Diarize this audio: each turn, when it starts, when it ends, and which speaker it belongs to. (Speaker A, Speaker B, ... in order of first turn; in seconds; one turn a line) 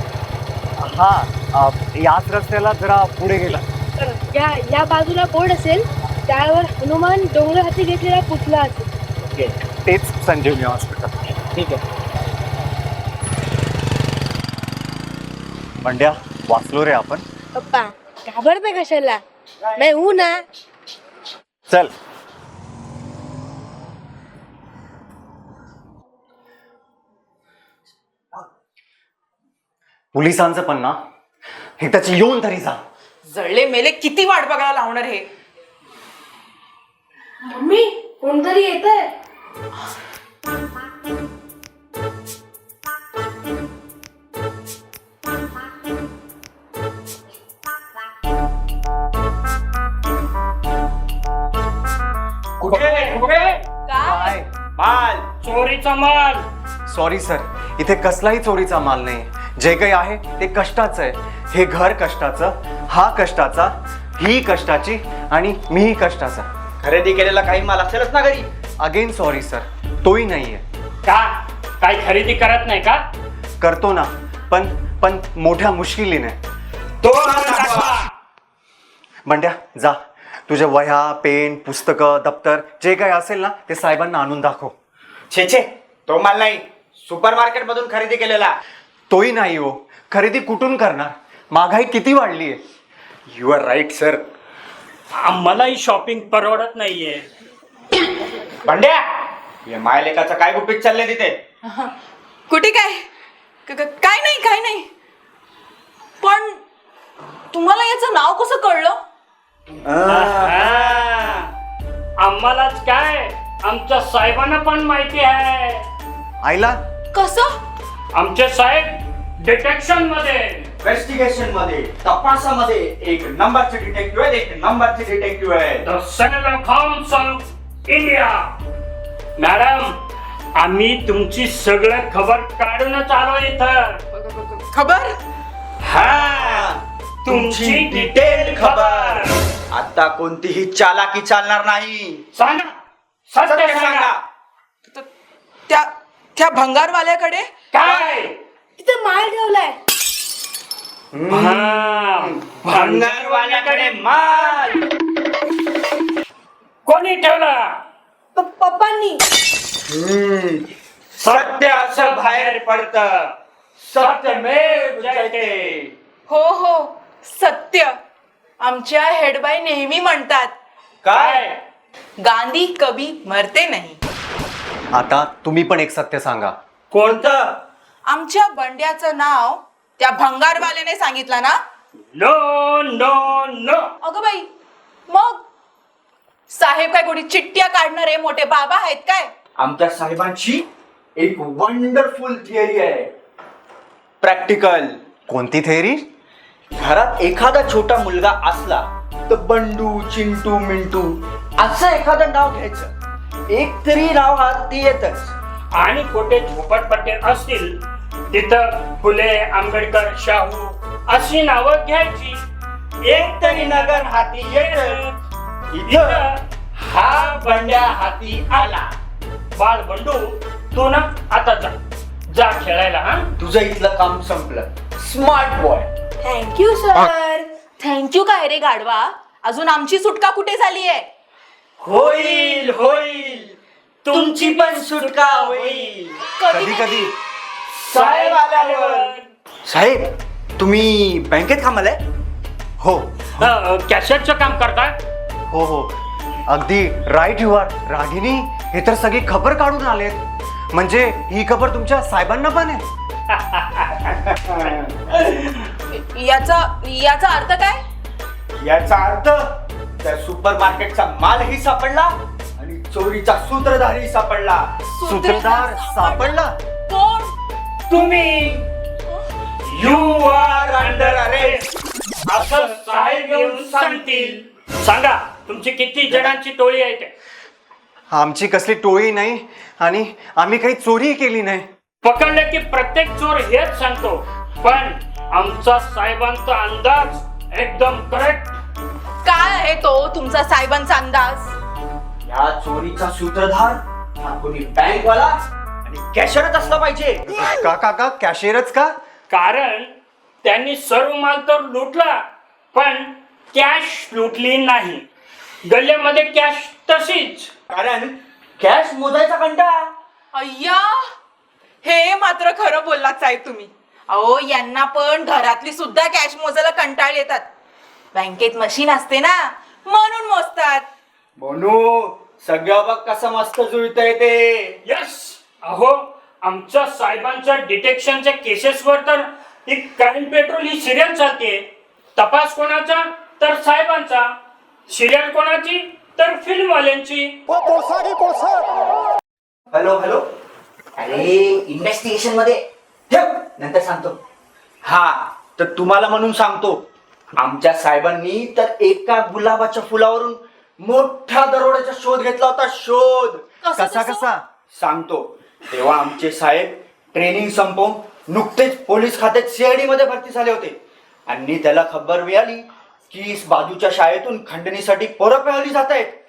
Speaker A: 0.8-3.6
Speaker B: 4.0-8.9
Speaker A: 9.7-11.3
Speaker A: 15.8-17.2
Speaker B: 17.5-19.2
Speaker B: 19.7-20.4
Speaker A: 30.1-31.0
Speaker A: 31.8-32.8
Speaker C: 33.2-35.3
Speaker B: 37.5-38.9
Speaker C: 38.4-38.8
Speaker D: 52.6-53.6
Speaker E: 52.8-53.5
Speaker C: 53.9-54.4
Speaker A: 54.0-54.5
Speaker D: 54.8-55.2
Speaker E: 55.4-56.4
Speaker A: 56.9-66.5
Speaker D: 66.8-68.5
Speaker A: 68.8-70.6
Speaker E: 71.0-73.0
Speaker A: 73.6-76.4
Speaker D: 77.0-78.0
Speaker E: 77.0-78.1
Speaker A: 79.2-84.7
Speaker D: 85.3-88.5
Speaker A: 89.1-92.6
Speaker D: 93.3-94.2
Speaker E: 95.2-97.2
Speaker D: 98.6-99.0
Speaker D: 99.6-101.4
Speaker C: 101.6-101.9
Speaker C: 102.5-103.0
Speaker C: 103.7-104.9
Speaker C: 106.2-106.6
Speaker C: 107.5-109.0
Speaker D: 109.8-111.4
Speaker E: 110.1-111.4
Speaker E: 112.2-115.8
Speaker A: 116.4-116.8
Speaker C: 117.1-117.5
Speaker E: 118.1-120.7
Speaker D: 120.8-125.8
Speaker E: 125.8-128.5
Speaker E: 129.4-130.0
Speaker E: 130.6-134.0
Speaker C: 134.1-135.2
Speaker E: 135.8-139.4
Speaker D: 135.9-142.2
Speaker E: 142.3-142.7
Speaker E: 143.3-144.1
Speaker D: 143.4-144.2
Speaker C: 145.7-147.5
Speaker E: 147.7-148.3
Speaker B: 148.8-149.7
Speaker D: 151.1-154.8
Speaker E: 151.3-154.6
Speaker E: 156.8-157.8
Speaker B: 158.4-159.1
Speaker C: 158.8-159.1
Speaker D: 159.9-160.7
Speaker E: 161.2-163.3
Speaker D: 161.2-163.0
Speaker D: 163.8-165.9
Speaker E: 163.9-165.8
Speaker C: 166.3-167.9
Speaker C: 168.6-170.5
Speaker D: 171.0-171.5
Speaker E: 171.1-171.6
Speaker C: 172.2-174.0
Speaker A: 174.9-176.6
Speaker E: 176.9-177.3
Speaker D: 176.9-177.5
Speaker C: 178.1-181.6
Speaker E: 182.1-183.9
Speaker C: 184.0-184.5
Speaker C: 185.1-185.4
Speaker C: 186.5-189.3
Speaker D: 189.6-190.6
Speaker D: 191.2-193.1
Speaker D: 194.2-194.9
Speaker A: 195.3-196.0
Speaker D: 196.7-202.9
Speaker D: 203.5-205.3
Speaker E: 205.7-207.8
Speaker E: 208.3-212.4
Speaker E: 213.0-215.1
Speaker D: 213.1-215.0
Speaker D: 215.7-216.2
Speaker E: 215.8-218.7
Speaker D: 217.1-218.9
Speaker E: 219.5-221.7
Speaker E: 222.3-223.3
Speaker D: 223.4-225.9
Speaker C: 226.2-231.1
Speaker D: 231.8-233.5
Speaker E: 231.9-233.2
Speaker E: 234.0-235.9
Speaker D: 234.1-236.2
Speaker C: 236.4-237.1
Speaker A: 236.5-237.1
Speaker D: 237.7-239.1
Speaker E: 237.8-239.3
Speaker D: 239.6-242.0
Speaker A: 242.8-243.4
Speaker E: 243.3-244.9
Speaker A: 245.5-245.9
Speaker A: 246.5-252.8
Speaker E: 253.3-254.0
Speaker D: 254.2-254.9
Speaker E: 255.2-255.6
Speaker C: 255.9-257.8
Speaker D: 258.6-264.7
Speaker C: 264.9-267.3
Speaker A: 265.0-266.6
Speaker E: 267.9-268.6
Speaker E: 269.6-271.6
Speaker D: 269.8-271.6
Speaker E: 272.3-277.1
Speaker D: 272.4-274.4
Speaker D: 276.1-276.4
Speaker A: 278.1-281.7
Speaker E: 282.0-288.6
Speaker C: 289.2-291.5
Speaker D: 292.2-297.3
Speaker A: 297.3-298.9
Speaker E: 299.3-299.9
Speaker E: 300.4-305.0
Speaker E: 305.6-307.5
Speaker D: 307.7-309.9
Speaker C: 310.3-311.0
Speaker C: 311.8-317.4
Speaker C: 318.1-320.8
Speaker D: 321.4-324.8
Speaker E: 324.8-331.6
Speaker E: 332.1-334.3
Speaker E: 334.9-337.4
Speaker D: 339.7-340.2
Speaker D: 340.9-344.2
Speaker D: 344.8-346.8
Speaker D: 347.3-353.4
Speaker C: 353.6-354.2
Speaker A: 353.8-354.4
Speaker D: 354.7-360.8
Speaker D: 361.3-366.1